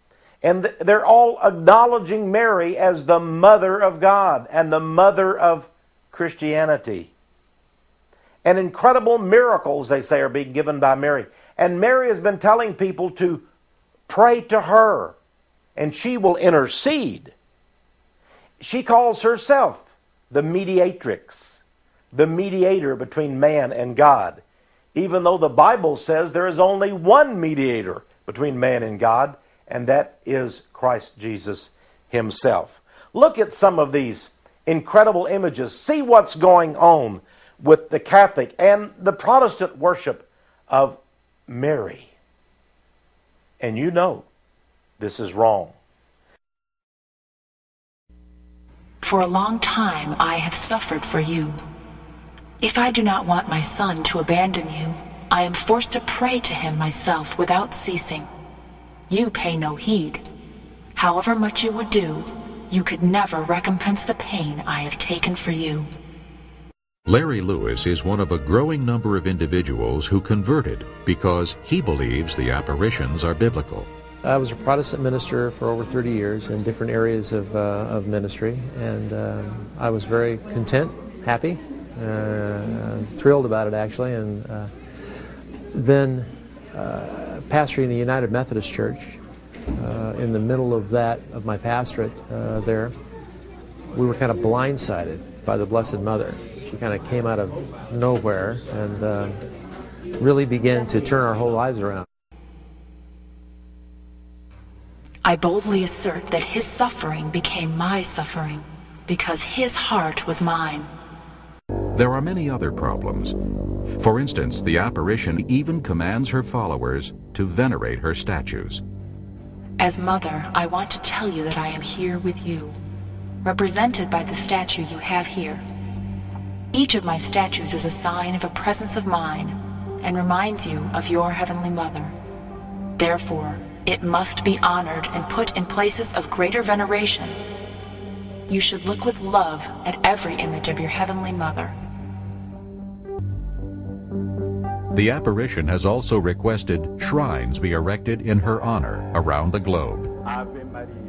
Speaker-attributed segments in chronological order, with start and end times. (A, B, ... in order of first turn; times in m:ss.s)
0:00.4-0:07.1 A
0:08.4-0:13.4 A
0:14.1-0:15.1 A
0:15.8-0:17.3 A
0:18.6-0:21.6 A
0:22.1-0:24.4 A
0:24.9-0:42.1 A
0:43.6-0:44.2 A
0:45.0-0:45.7 A
0:49.0-0:51.6 B
0:52.6-0:58.3 B
0:59.1-1:00.2 B
1:00.9-1:05.9 B
1:07.0-1:13.9 C
1:14.2-1:24.7 D
1:25.7-1:29.2 D
1:29.8-1:32.9 D
1:33.9-1:39.4 D
1:40.2-1:42.0 D
1:45.2-1:50.9 B
1:51.9-1:53.4 C
1:54.0-1:58.8 C
1:59.8-2:02.8 B
2:03.4-2:05.6 B
2:06.7-2:12.1 B
2:13.0-2:17.4 B
2:18.5-2:21.7 B
2:24.9-2:30.1 C